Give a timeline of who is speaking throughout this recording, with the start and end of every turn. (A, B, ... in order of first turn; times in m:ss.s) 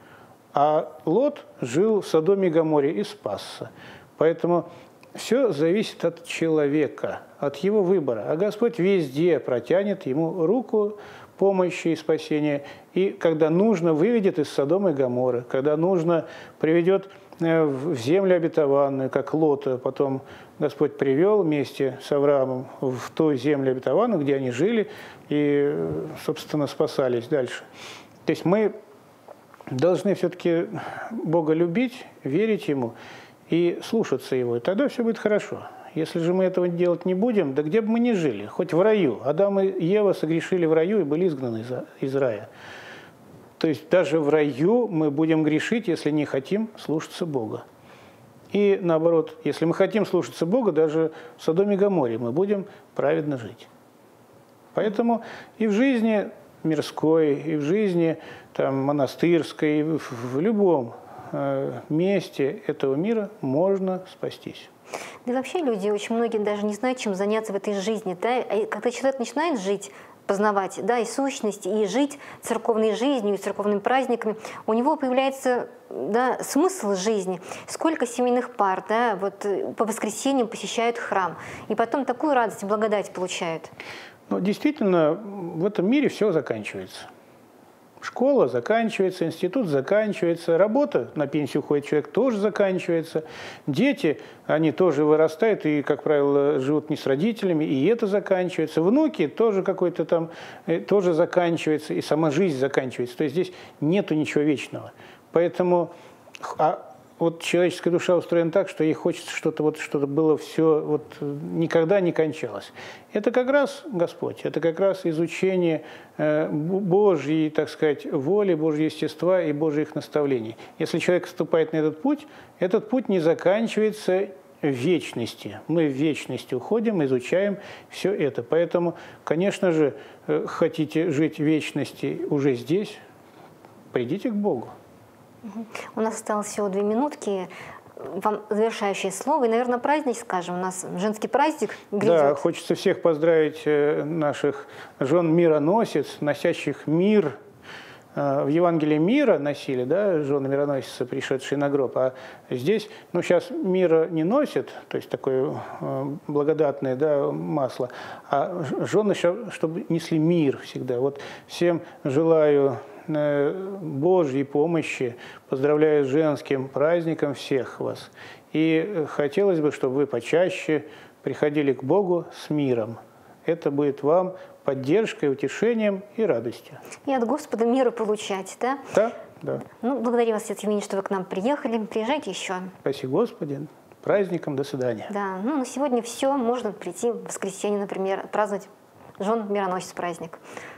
0:00.5-0:27.6 A
0:28.2-0:28.7 A
0:29.7-0:32.9 A
0:33.5-0:42.5 A
0:43.6-0:47.6 A
0:48.5-0:53.7 A
0:54.7-1:04.7 A
1:05.2-1:23.7 B
1:24.3-1:27.1 A
1:28.0-2:13.0 A
2:13.9-2:14.7 A
2:15.4-2:22.4 B
2:22.0-2:27.4 A
2:28.1-2:56.8 A
2:57.0-2:58.9 B
2:58.9-2:59.6 A
2:59.6-3:02.7 B
3:02.8-3:05.1 A
3:05.1-3:10.4 B